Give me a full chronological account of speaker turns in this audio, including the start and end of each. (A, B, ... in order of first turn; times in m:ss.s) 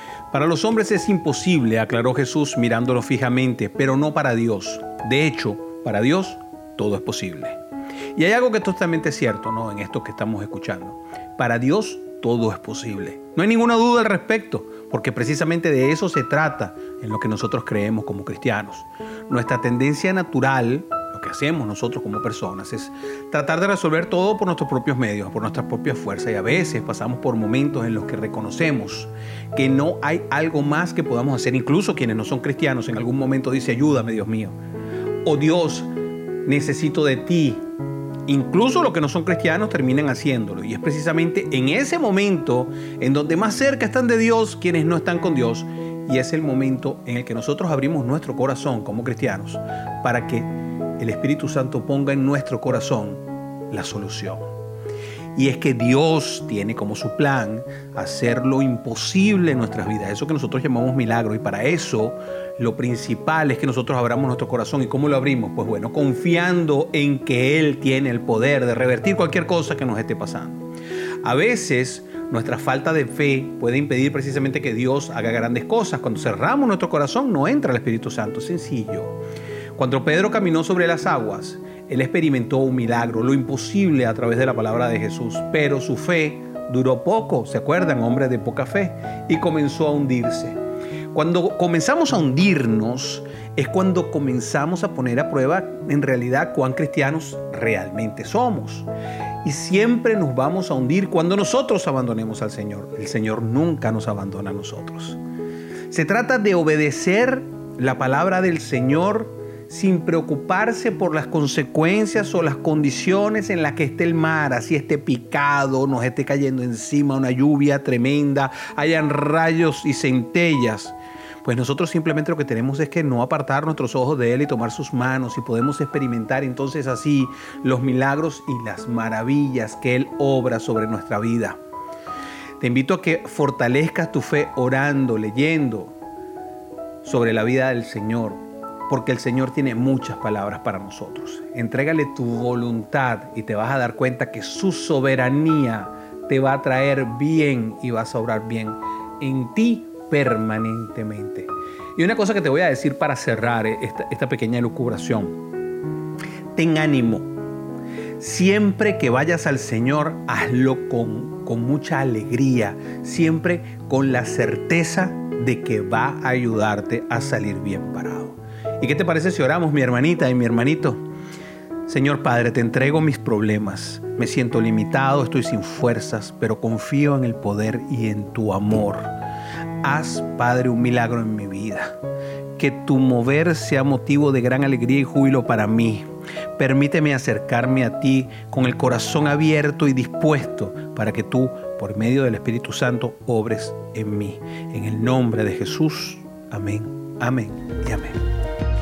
0:00.3-0:07.6 A
0:08.2-0:34.6 A
0:35.2-0:35.9 A
0:36.4-0:37.6 A
0:38.3-0:54.5 A
0:55.3-1:10.6 A
1:11.2-1:19.2 A
1:19.8-1:30.6 A
1:31.1-1:38.9 A
1:39.4-1:45.2 A
1:45.9-2:11.6 A
2:12.6-2:15.9 A
2:17.0-2:35.4 A
2:36.5-2:37.3 A
2:38.2-2:51.0 A
2:51.8-2:59.1 A
2:59.8-3:01.9 A
3:02.6-3:06.0 A
3:06.6-3:18.2 A